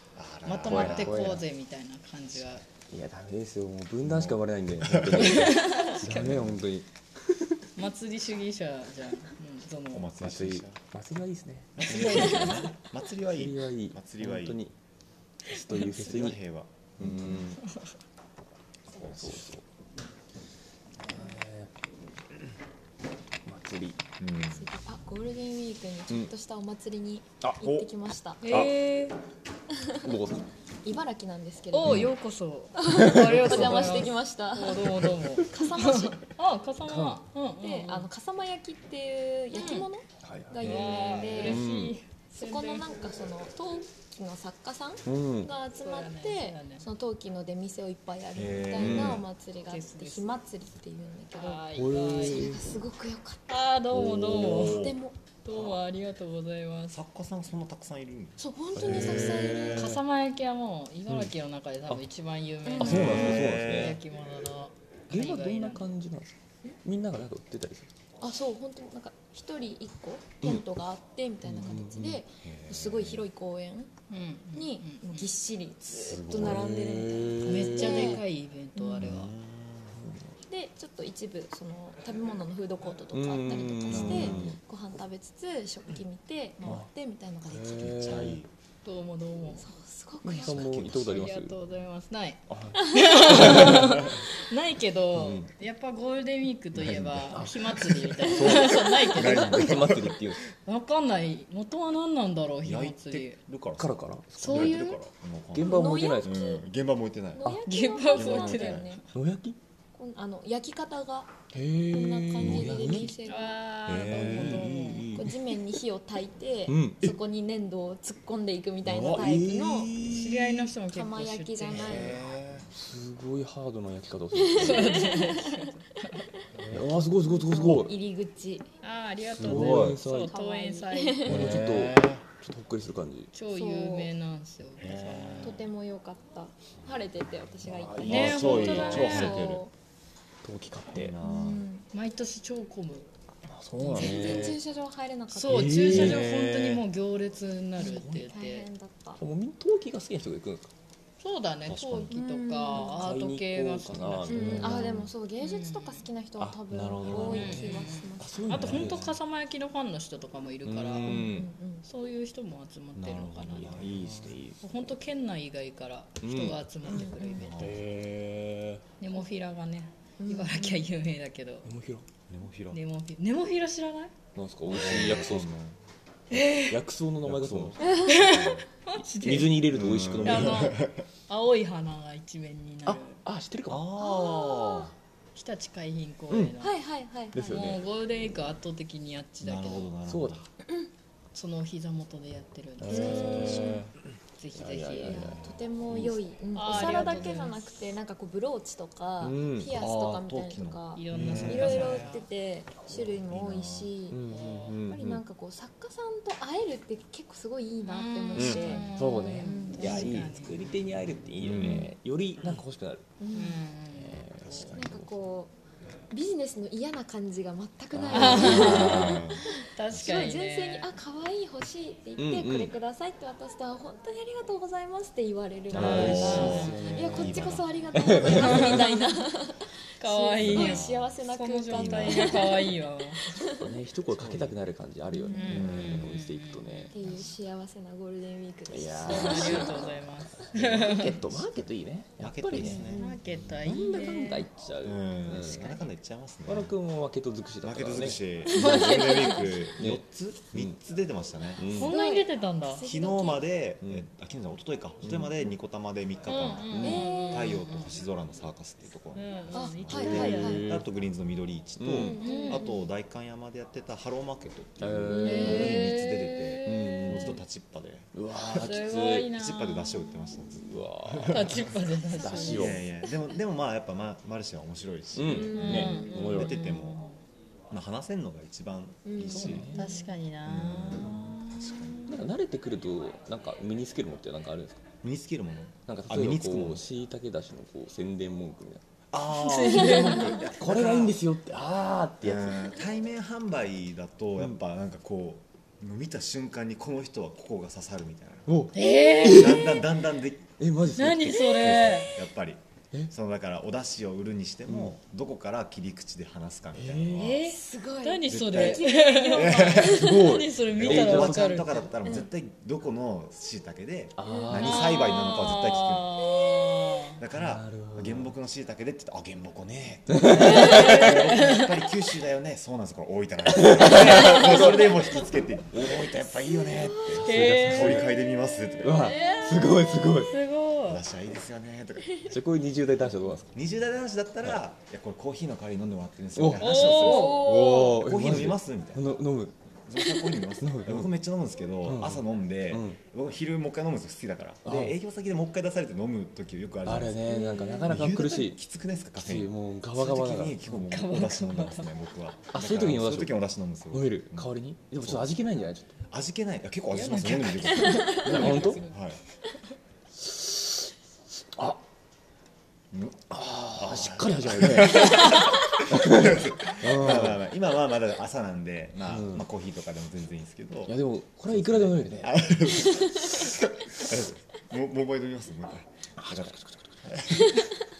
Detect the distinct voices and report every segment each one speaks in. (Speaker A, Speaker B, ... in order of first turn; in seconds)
Speaker A: 0.1-1.4, 4.0-6.7, 9.9-10.8, 11.8-14.6, 15.8-17.5, 19.0-19.5, 24.2-24.7, 27.6-27.9, 48.3-49.2, 54.3-55.0, 55.5-55.8, 56.9-59.6, 62.8-64.0, 72.4-73.3, 75.8-76.7, 79.0-80.0, 83.9-84.5, 87.8-88.5, 90.4-91.3, 96.8-97.7, 99.1-100.2, 102.6-107.5, 108.1-108.9, 112.4-113.1, 113.9-115.0, 118.9-119.4, 121.8-122.7, 129.4-130.0, 131.3-132.2, 134.8-135.7, 137.7-139.7, 140.9-141.7, 151.7-152.1, 154.6-155.1, 156.8-157.4, 158.7-158.9, 163.0-164.4, 167.3-167.8, 172.3-172.8, 174.7-175.8, 177.2-178.7, 179.7-181.1, 183.7-184.9, 189.4-190.4, 199.7-202.1, 202.9-203.9, 208.3-209.0, 211.4-211.9, 214.4-215.1, 218.3-220.3, 225.8-227.8, 230.4-231.2, 231.7-232.5, 234.1-234.6, 235.5-236.1, 241.3-241.6, 242.2-243.2, 244.8-246.8, 247.6-251.7, 252.8-268.7, 269.2-271.8, 272.5-277.0, 277.7-279.7, 280.4-282.2, 285.0-286.9, 289.1-291.2, 292.2-298.6, 299.2-307.4, 308.3-316.2, 317.2-329.2, 330.8-332.4, 333.5-339.2, 339.9-347.2, 347.9-355.3, 356.1-359.2, 362.9-371.0, 371.5-377.5
Speaker B: 0.5-2.6, 5.2-6.3, 7.8-10.1, 11.9-12.6, 17.6-17.9, 28.4-29.2, 31.7-38.1, 39.5-39.9, 40.6-42.9, 45.8-46.9, 49.7-50.3, 51.4-52.5, 53.5-57.0, 59.5-65.9, 74.1-75.3, 77.4-79.3, 88.8-89.7, 91.1-100.0, 100.7-103.4, 104.4-105.0, 107.7-109.1, 113.2-115.2, 120.1-122.2, 124.5-126.3, 128.8-131.4, 133.3-135.6, 138.0-139.5, 141.9-143.1, 143.9-144.6, 145.3-148.7, 151.2-154.9, 155.4-156.1, 157.1-163.8, 164.6-167.6, 169.0-171.7, 172.7-174.1, 176.3-176.8, 178.0-179.7, 180.2-183.2, 185.4-186.8, 187.5-189.9, 191.3-193.7, 194.4-195.4, 196.5-197.7, 200.9-202.3, 204.3-204.8, 207.8-210.7, 213.3-214.2, 218.1-220.9, 225.7-226.9, 228.2-229.4, 230.0-233.2, 235.3-236.9, 239.1-241.2, 242.6-244.5, 245.3-245.9, 248.5-249.7, 251.8-252.8, 256.3-258.0, 259.1-260.8, 262.2-262.7, 265.2-267.4, 268.6-270.1, 271.3-272.8, 275.5-277.2, 279.8-282.1, 289.2-290.5, 298.7-299.9, 301.0-302.2, 307.1-311.9, 314.6-317.2, 320.3-321.7, 324.0-325.1, 327.2-328.1, 330.2-331.0, 336.6-337.7, 350.8-351.9, 356.9-359.0
Speaker C: 0.6-1.4, 2.9-7.7, 10.2-12.7, 13.3-14.7, 15.5-16.4, 17.0-17.6, 19.0-19.6, 21.0-21.7, 23.4-24.0, 27.4-27.8, 28.5-28.7, 30.0-30.4, 32.9-34.1, 36.9-37.2, 40.2-42.0, 45.0-45.5, 48.8-49.2, 51.7-52.7, 53.9-54.6, 58.8-60.0, 62.8-64.0, 65.1-67.9, 71.5-72.2, 76.3-78.2, 79.9-80.3, 83.1-84.6, 86.6-86.9, 87.5-88.4, 90.2-91.6, 92.5-94.2, 95.2-95.5, 97.3-100.5, 103.8-104.8, 105.5-106.5, 109.1-109.6, 111.5-113.2, 114.1-115.4, 116.7-117.2, 118.9-120.7, 122.7-125.1, 126.7-127.9, 129.4-130.3, 131.2-133.3, 137.7-138.6, 140.4-141.2, 143.4-144.6, 145.4-146.8, 147.8-148.3, 149.2-150.7, 152.7-155.1, 156.4-159.2, 160.7-161.5, 163.5-164.9, 166.2-166.6, 167.6-168.8, 171.6-172.1, 174.3-175.5, 176.5-178.0, 179.2-180.7, 182.8-183.9, 187.3-187.8, 190.1-190.4, 192.8-194.0, 194.6-197.3, 199.2-199.8, 201.1-201.7, 204.1-205.2, 208.9-213.1, 213.9-215.0, 217.9-219.2, 222.2-222.7, 225.7-228.8, 233.3-236.9, 238.7-242.9, 243.6-245.7, 246.5-248.7, 249.8-250.8, 251.6-252.0, 253.8-254.1, 255.0-255.3, 256.7-257.1, 260.1-260.9, 261.8-262.2, 264.8-265.8, 266.6-267.4, 268.1-269.3, 270.6-271.5, 272.2-272.8, 275.1-276.7, 279.3-279.8, 282.1-284.8, 285.9-288.8, 290.4-292.8, 298.5-299.8, 300.6-301.9, 304.7-304.9, 306.7-307.3, 309.8-311.8, 314.2-314.9, 317.3-318.3, 320.1-321.2, 323.5-324.9, 325.7-328.1, 328.8-330.3, 332.3-333.5, 336.4-339.6, 340.6-341.1, 341.8-343.0, 344.6-345.0, 346.9-348.6, 349.2-350.9, 352.5-353.4, 353.9-355.9, 358.1-358.9, 360.2-360.9, 361.5-361.8, 363.3-367.4, 369.1-369.5, 370.9-372.7, 376.2-377.2
Speaker D: 24.4-28.6, 29.7-30.1, 30.8-32.1, 32.8-36.2, 37.6-41.8, 42.3-53.6, 54.4-55.2, 58.4-60.0, 62.6-63.2, 68.2-73.9, 74.5-78.2, 78.8-79.2, 80.5-88.2, 89.6-90.8, 92.9-93.4, 105.6-106.7, 107.4-109.0, 110.0-111.3, 111.9-113.7, 115.1-120.0, 120.8-122.2, 124.3-125.7, 127.2-128.7, 130.2-131.5, 133.5-134.1, 135.4-139.7, 141.2-141.8, 143.8-146.2, 147.8-149.2, 152.1-153.1, 154.3-158.9, 161.1-161.8, 166.9-167.5, 170.2-170.9, 177.8-178.4, 183.9-184.9, 186.6-187.6, 192.9-193.9, 195.0-204.2, 204.9-210.3, 211.5-211.9, 213.2-213.6, 214.7-215.5, 216.1-233.7, 235.1-235.7, 236.9-240.0, 242.6-243.2, 248.5-249.7, 251.7-253.5, 256.8-257.7, 259.5-260.7, 261.9-262.9, 265.1-265.8, 272.1-272.7, 275.3-276.5, 279.1-280.0, 289.7-290.4, 307.4-310.3, 312.0-312.3, 314.3-314.9, 326.3-327.2, 328.3-330.2, 337.0-338.0, 347.2-347.9, 357.8-358.3, 372.9-373.3, 377.3-377.7